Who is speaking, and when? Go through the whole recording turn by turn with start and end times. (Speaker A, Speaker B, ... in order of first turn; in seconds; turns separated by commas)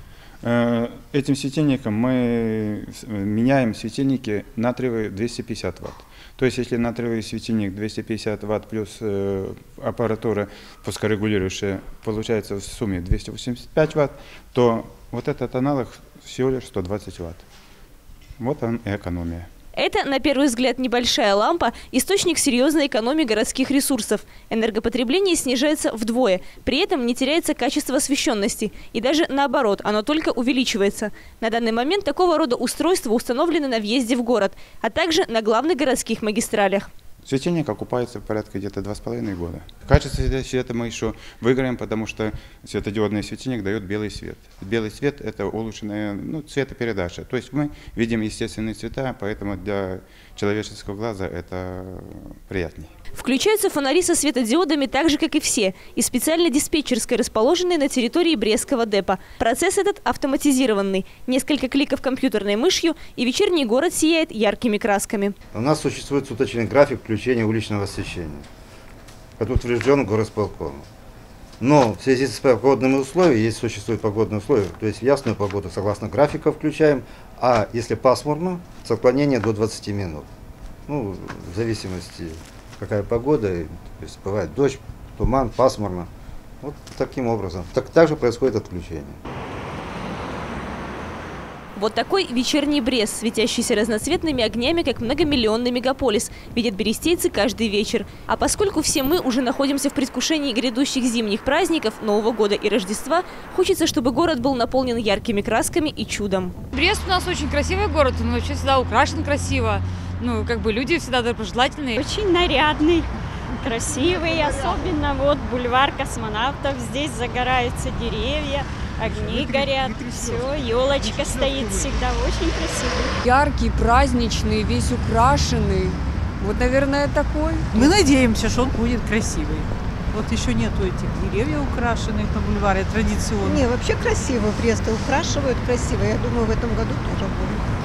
Speaker A: 0.4-17.5, Speaker A: 18.4-19.5, Speaker B: 19.8-36.9, Speaker A: 37.2-52.9, Speaker B: 53.2-65.3, Speaker C: 65.5-68.5, Speaker C: 69.4-70.9, Speaker C: 71.6-80.3, Speaker C: 80.9-86.1, Speaker C: 86.6-89.2, Speaker B: 91.8-106.5, Speaker D: 106.7-112.0, Speaker E: 112.0-123.2, Speaker F: 119.1-122.0, Speaker G: 123.2-127.8, Speaker F: 127.8-133.7, Speaker H: 133.4-137.6